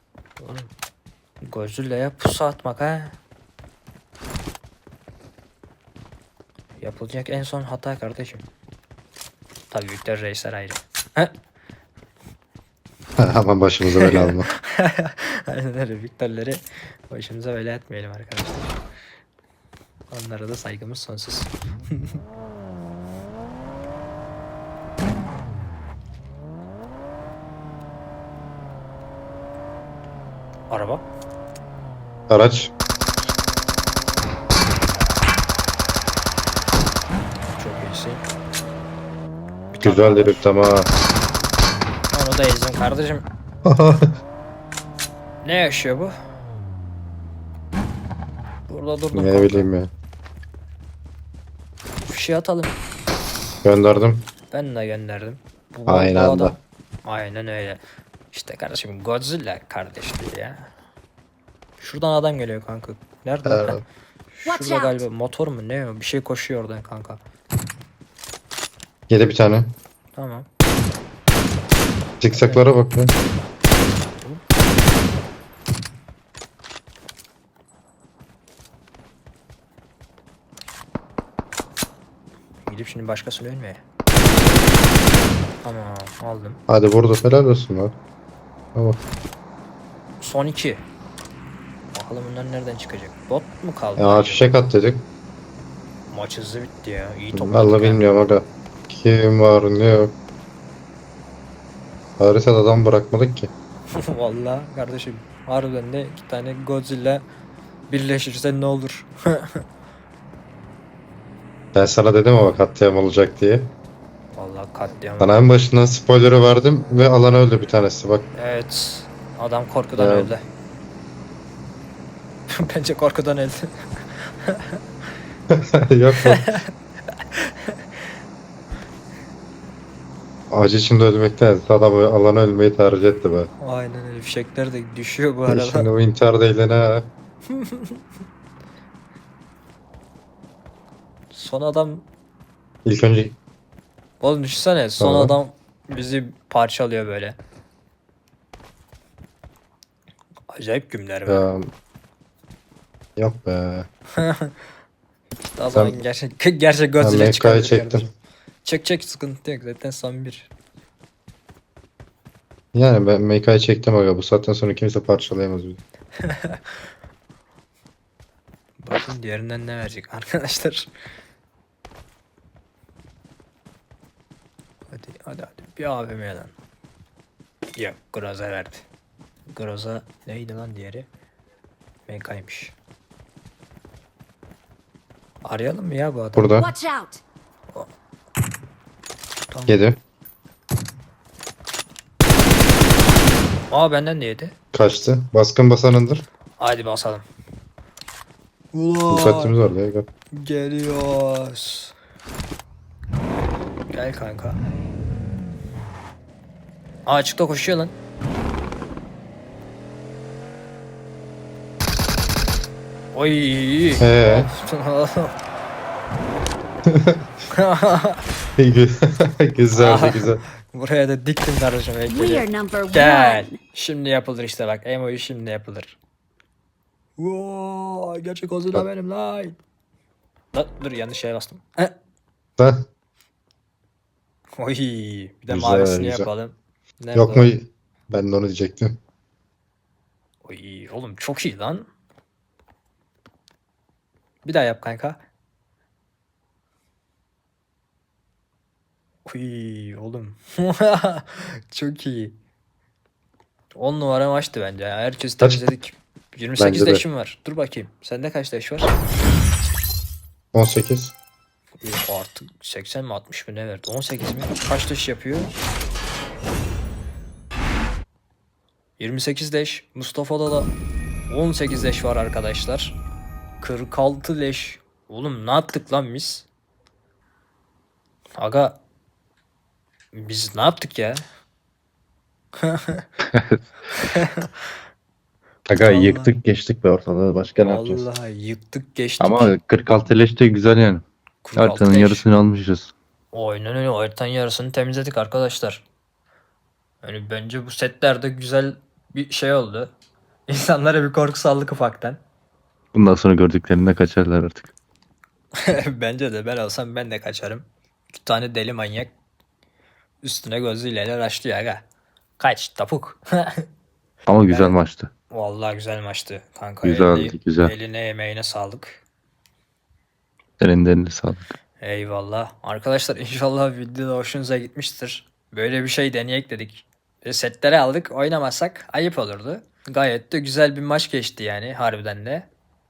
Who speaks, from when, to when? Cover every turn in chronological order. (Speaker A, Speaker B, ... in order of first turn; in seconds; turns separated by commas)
Speaker A: 0.4-0.7, Speaker A: 1.4-3.2, Speaker A: 6.8-8.4, Speaker A: 9.7-11.3, Speaker B: 13.2-14.5, Speaker A: 13.9-18.8, Speaker A: 20.1-22.2, Speaker A: 30.7-31.0, Speaker B: 32.3-32.7, Speaker A: 37.6-38.2, Speaker A: 39.7-40.5, Speaker B: 39.8-40.9, Speaker A: 42.1-43.3, Speaker B: 43.6-44.2, Speaker A: 45.4-46.2, Speaker A: 48.7-49.7, Speaker B: 49.1-49.9, Speaker A: 52.0-52.7, Speaker B: 53.6-54.3, Speaker A: 54.5-57.8, Speaker B: 55.9-56.6, Speaker A: 58.3-60.7, Speaker A: 61.8-63.8, Speaker B: 63.5-63.8, Speaker A: 64.4-67.2, Speaker C: 64.5-65.0, Speaker B: 69.1-69.8, Speaker A: 70.2-70.5, Speaker B: 72.2-73.2, Speaker A: 72.3-72.8, Speaker A: 74.0-74.4, Speaker A: 82.7-83.8, Speaker A: 85.6-86.6, Speaker B: 86.7-88.0, Speaker B: 88.8-89.0, Speaker A: 90.2-90.8, Speaker A: 91.9-94.6, Speaker B: 94.0-95.1, Speaker A: 96.1-98.1, Speaker B: 97.3-100.2, Speaker B: 102.2-103.5, Speaker A: 103.9-107.2, Speaker A: 107.9-109.6, Speaker B: 111.8-113.7, Speaker A: 114.3-115.5, Speaker B: 115.2-118.3, Speaker A: 118.3-120.4, Speaker B: 120.0-120.3, Speaker A: 122.5-124.8, Speaker B: 125.5-126.6, Speaker A: 126.2-127.8, Speaker B: 130.5-133.5, Speaker A: 133.6-135.9, Speaker B: 135.5-137.1, Speaker A: 137.5-138.0, Speaker A: 141.3-142.1, Speaker B: 142.8-143.4, Speaker A: 144.2-147.4, Speaker B: 145.0-145.4, Speaker A: 150.5-151.5, Speaker B: 151.3-151.7, Speaker B: 153.2-153.9, Speaker A: 154.2-154.6, Speaker A: 155.6-160.5, Speaker B: 155.7-156.0, Speaker B: 157.0-158.1, Speaker B: 162.7-165.8, Speaker A: 166.2-166.6, Speaker A: 168.8-170.9, Speaker A: 174.9-176.5, Speaker A: 177.8-178.8, Speaker A: 179.5-181.1, Speaker A: 182.1-182.7, Speaker A: 185.4-186.6, Speaker B: 186.4-186.7, Speaker C: 186.6-187.2, Speaker A: 189.5-189.8, Speaker B: 189.7-190.0, Speaker A: 193.7-194.6, Speaker B: 194.7-196.3, Speaker A: 196.6-197.2, Speaker A: 198.7-199.6, Speaker B: 199.1-200.1, Speaker A: 200.3-201.9, Speaker A: 203.9-204.6, Speaker A: 207.1-207.9, Speaker A: 213.1-215.4, Speaker B: 214.0-214.5, Speaker B: 216.9-217.2, Speaker A: 217.5-218.2, Speaker B: 218.6-220.4, Speaker A: 219.7-226.0, Speaker C: 222.1-223.6, Speaker A: 227.2-229.6, Speaker A: 230.5-231.9, Speaker B: 232.6-232.9, Speaker A: 234.6-237.5, Speaker B: 235.5-236.3, Speaker B: 237.2-239.0, Speaker A: 240.4-241.9, Speaker A: 244.4-245.2, Speaker A: 249.3-252.4, Speaker A: 253.8-258.9, Speaker B: 255.4-255.7, Speaker B: 256.6-257.0, Speaker B: 260.5-261.1, Speaker A: 261.8-265.6, Speaker A: 269.0-270.7, Speaker A: 271.3-273.0, Speaker A: 273.6-276.5, Speaker A: 278.4-278.8, Speaker A: 280.1-281.2, Speaker A: 282.6-283.1, Speaker D: 283.3-283.6, Speaker A: 284.0-284.5, Speaker D: 285.7-288.0, Speaker A: 285.8-286.4, Speaker A: 287.6-289.6, Speaker D: 289.2-291.0, Speaker A: 291.4-292.3, Speaker D: 291.6-292.9, Speaker A: 293.3-295.9, Speaker A: 297.0-299.9, Speaker A: 300.5-302.2, Speaker D: 302.9-304.7, Speaker A: 305.6-309.1, Speaker A: 310.2-311.8, Speaker A: 312.4-313.7, Speaker D: 314.3-315.1, Speaker A: 314.5-319.0, Speaker D: 316.8-317.7, Speaker D: 320.6-321.5, Speaker A: 321.8-332.5